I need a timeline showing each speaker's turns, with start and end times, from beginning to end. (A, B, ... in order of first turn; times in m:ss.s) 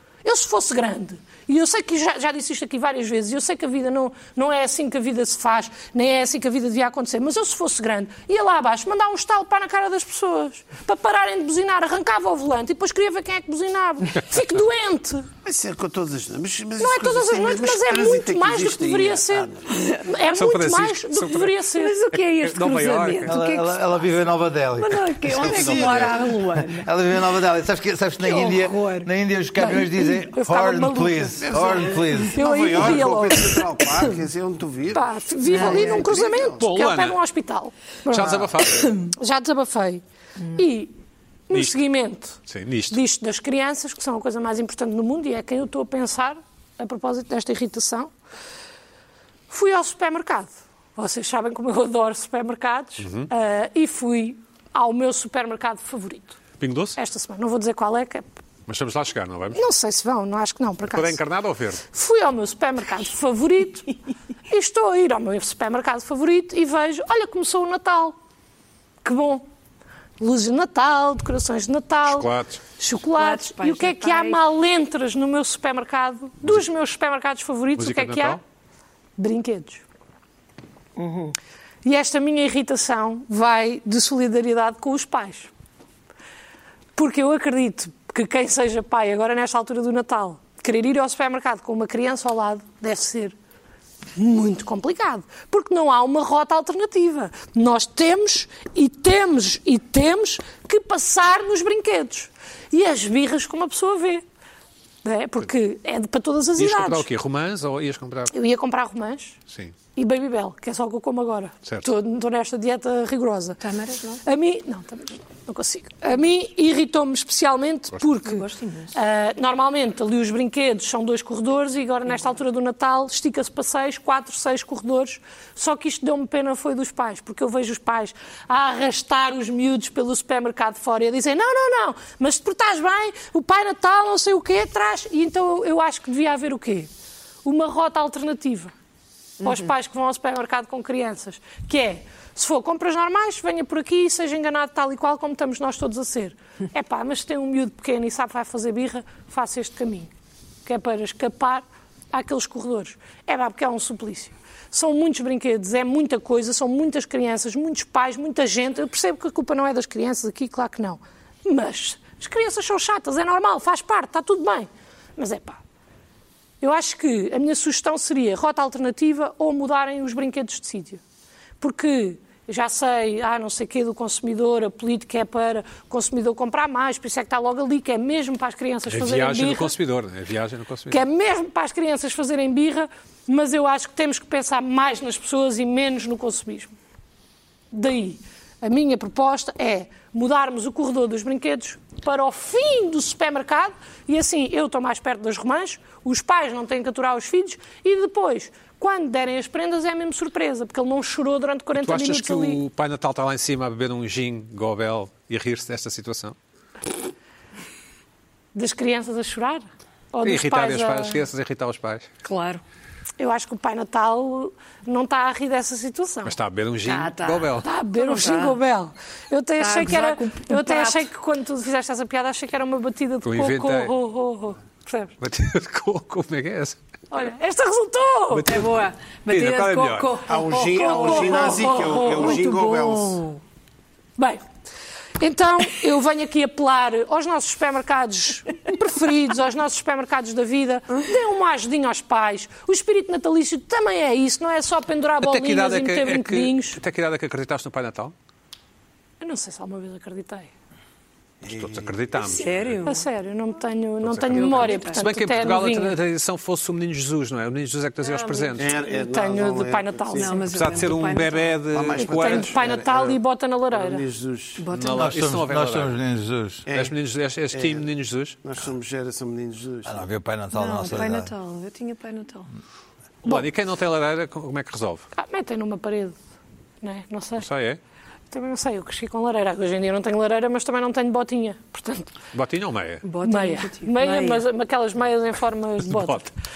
0:00.2-0:15.3 A
0:15.4-0:19.7 B
0:16.8-0:22.0 A
0:19.8-0:20.0 C
0:20.2-0:21.5 D
0:21.7-0:24.0 C
0:22.1-0:23.4 D
0:23.2-0:32.4 E
0:24.8-0:26.9 C
0:25.3-0:26.2 D
0:28.2-0:29.1 C
0:29.6-0:33.8 A
0:31.4-0:36.6 B
0:34.9-0:40.0 A
0:35.5-0:36.0 C
0:36.6-0:37.2 D
0:38.1-0:39.0 D
0:40.5-0:40.9 A
0:41.5-0:42.4 A
0:42.5-0:43.0 D
0:42.9-0:48.1 A
0:49.5-0:56.4 A
0:53.0-0:53.3 D
0:56.6-0:57.0 D
0:57.0-0:58.3 A
0:58.7-0:59.6 D
0:59.5-1:01.2 A
1:00.9-1:01.8 D
1:01.9-1:03.9 A
1:04.5-1:08.2 A
1:09.0-1:09.4 A
1:10.2-1:12.3 A
1:12.0-1:12.6 D
1:12.8-1:18.4 A
1:13.1-1:14.4 C
1:17.8-1:18.4 D
1:19.2-1:19.8 A
1:21.0-1:21.3 C
1:21.8-1:25.5 A
1:27.0-1:33.3 A
1:34.2-1:44.2 A
1:45.0-1:47.0 A
1:46.6-1:48.3 D
1:48.3-1:49.4 A
1:49.5-1:49.7 D
1:49.9-1:53.6 A
1:53.6-1:54.2 C
1:54.2-2:16.9 A
1:58.2-1:58.9 C
2:17.4-2:18.7 A
2:19.4-2:30.1 A
2:19.4-2:19.7 C
2:30.6-2:45.6 A
2:46.6-2:51.0 A
2:51.6-2:59.7 A
2:58.9-3:01.0 D
3:00.9-3:06.7 A
3:07.7-3:22.6 A
3:21.7-3:26.4 D
3:28.5-3:31.2 A
3:30.2-3:32.1 D
3:32.2-3:32.6 C
3:33.2-3:36.4 A
3:36.2-3:37.7 D
3:36.8-3:38.6 C
3:37.6-3:45.1 A
3:39.6-3:41.1 C
3:43.2-3:43.9 D
3:45.2-3:46.8 D
3:47.1-3:48.5 A
3:48.3-3:48.7 D
3:48.4-3:53.4 C
3:49.3-3:50.2 D
3:50.2-3:53.2 B
3:50.7-3:52.4 A
3:54.2-3:54.4 A
3:55.2-4:06.8 A
4:05.2-4:08.1 D
4:09.2-4:10.5 A
4:11.4-4:12.2 B
4:11.4-4:12.8 D
4:12.2-4:13.0 C
4:12.8-4:16.0 A
4:14.0-4:18.7 D
4:14.3-4:15.5 C
4:18.1-4:18.6 C
4:18.6-4:20.4 B
4:18.7-4:20.4 A
4:20.2-4:21.6 C
4:20.5-4:22.5 D
4:21.7-4:24.6 B
4:22.0-4:24.0 A
4:24.6-4:25.1 C
4:24.7-4:26.0 D
4:24.9-4:26.6 E
4:26.6-4:26.9 B
4:26.7-4:28.4 D
4:27.5-4:27.8 B
4:28.4-4:30.1 B
4:29.8-4:31.3 E
4:30.5-4:32.5 C
4:33.2-4:35.0 D
4:35.1-4:36.2 A
4:36.8-4:37.5 A
4:37.4-4:37.8 D
4:38.3-4:42.1 A
4:42.3-4:43.0 D
4:43.0-4:44.4 C
4:43.2-4:46.3 A
4:45.8-4:46.2 D